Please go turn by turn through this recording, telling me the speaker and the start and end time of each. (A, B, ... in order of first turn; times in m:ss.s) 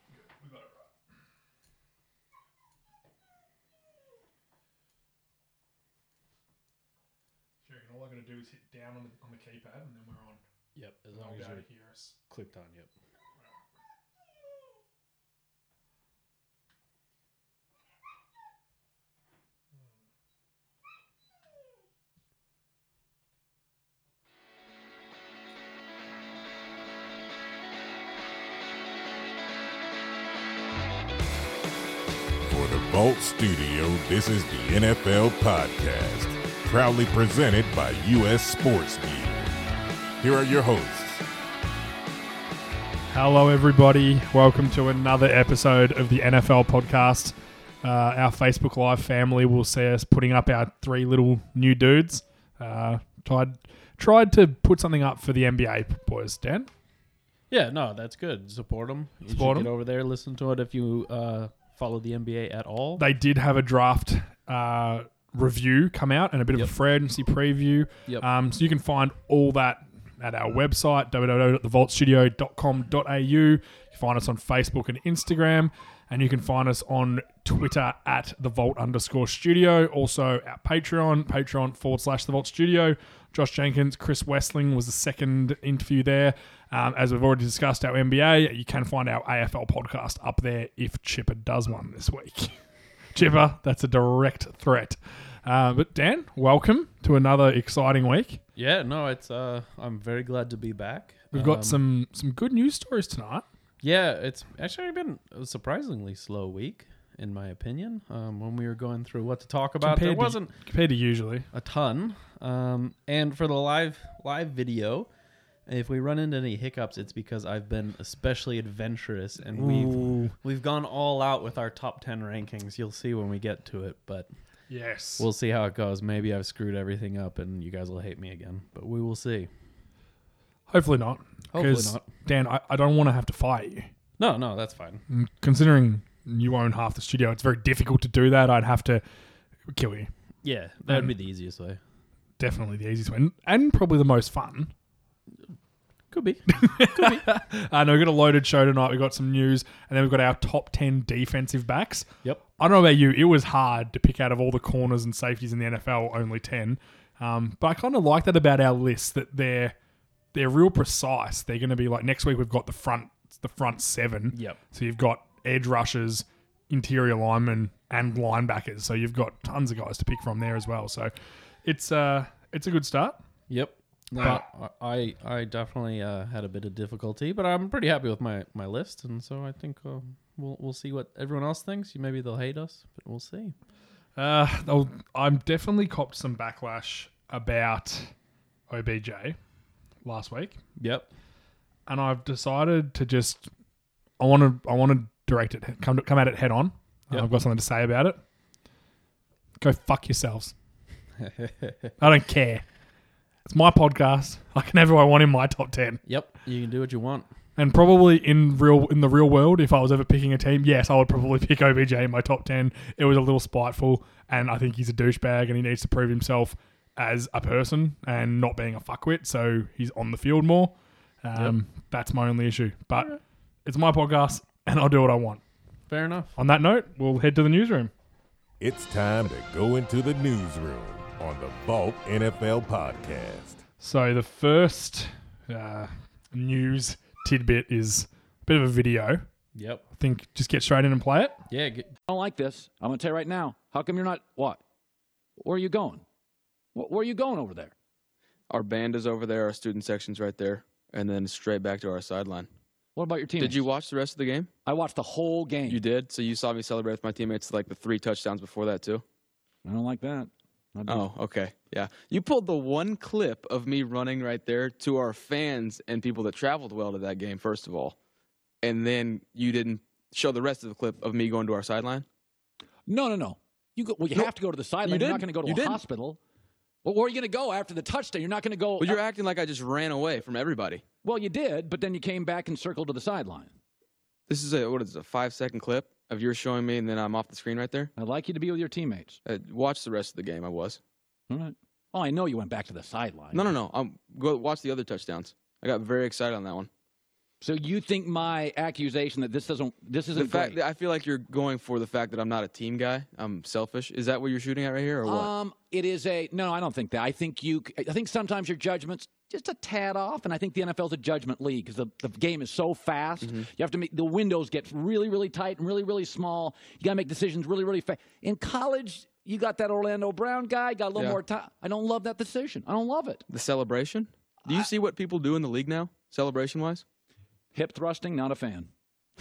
0:00.4-0:00.7 A
0:07.6-0:10.4 A
0:10.8-0:11.6 B
0:11.1-0:12.2 A
0:12.3-0:12.9 B
0:32.4-0:39.5 C
0:40.2-0:41.2 C
0:43.1-0:56.7 A
0:57.5-1:03.0 B
0:59.3-0:59.7 A
1:03.0-1:32.5 A
1:33.2-1:38.4 A
1:38.6-1:41.8 B
1:41.3-1:43.5 A
1:43.8-1:50.5 B
1:49.8-1:51.5 A
1:51.5-1:55.1 B
1:55.7-2:04.3 B
1:59.5-2:00.3 A
2:04.7-2:05.3 A
2:05.2-2:09.5 B
2:10.7-2:13.9 A
2:11.5-2:12.1 B
2:14.2-2:15.0 B
2:15.1-2:19.0 A
2:19.7-2:20.1 A
2:20.4-2:21.8 B
2:22.4-2:24.7 A
2:26.1-2:27.2 B
2:26.5-2:39.8 A
2:40.3-2:51.1 A
2:44.3-2:44.6 B
2:51.6-2:53.2 A
2:53.5-3:03.5 B
3:04.2-3:08.1 A
3:08.7-3:09.4 A
3:10.0-3:10.6 A
3:10.8-3:11.1 B
3:11.9-3:13.5 A
3:14.2-3:18.2 A
3:19.6-3:20.5 A
3:21.2-3:21.9 B
3:22.0-3:22.6 A
3:23.5-3:26.0 A
3:26.1-3:27.3 B
3:27.6-3:45.4 A
3:45.9-3:46.4 B
3:46.4-3:47.9 A
3:48.6-3:53.6 C
3:53.8-3:59.2 A
3:59.6-3:59.8 B
4:00.0-4:01.4 A
4:01.5-4:01.9 B
4:02.1-4:04.6 D
4:05.4-4:06.0 D
4:06.8-4:07.7 D
4:08.5-4:12.5 E
4:13.0-4:13.6 D
4:13.4-4:14.5 E
4:14.7-4:15.8 D
4:15.7-4:19.0 E
4:19.6-4:21.1 D
4:20.9-4:28.0 E
4:28.6-4:32.0 E
4:32.9-4:36.2 D
4:34.8-4:35.8 E
4:36.8-4:39.0 D
4:38.8-4:40.8 E
4:41.0-4:43.5 D
4:44.3-4:47.9 E
4:48.0-4:49.2 D
4:49.2-4:50.8 E
4:51.3-4:53.5 D
4:53.3-4:56.7 E
4:57.4-5:00.6 D
5:00.1-5:05.3 E
5:05.0-5:23.2 D
5:13.2-5:13.5 E
5:23.3-5:26.8 E
5:27.5-5:28.7 D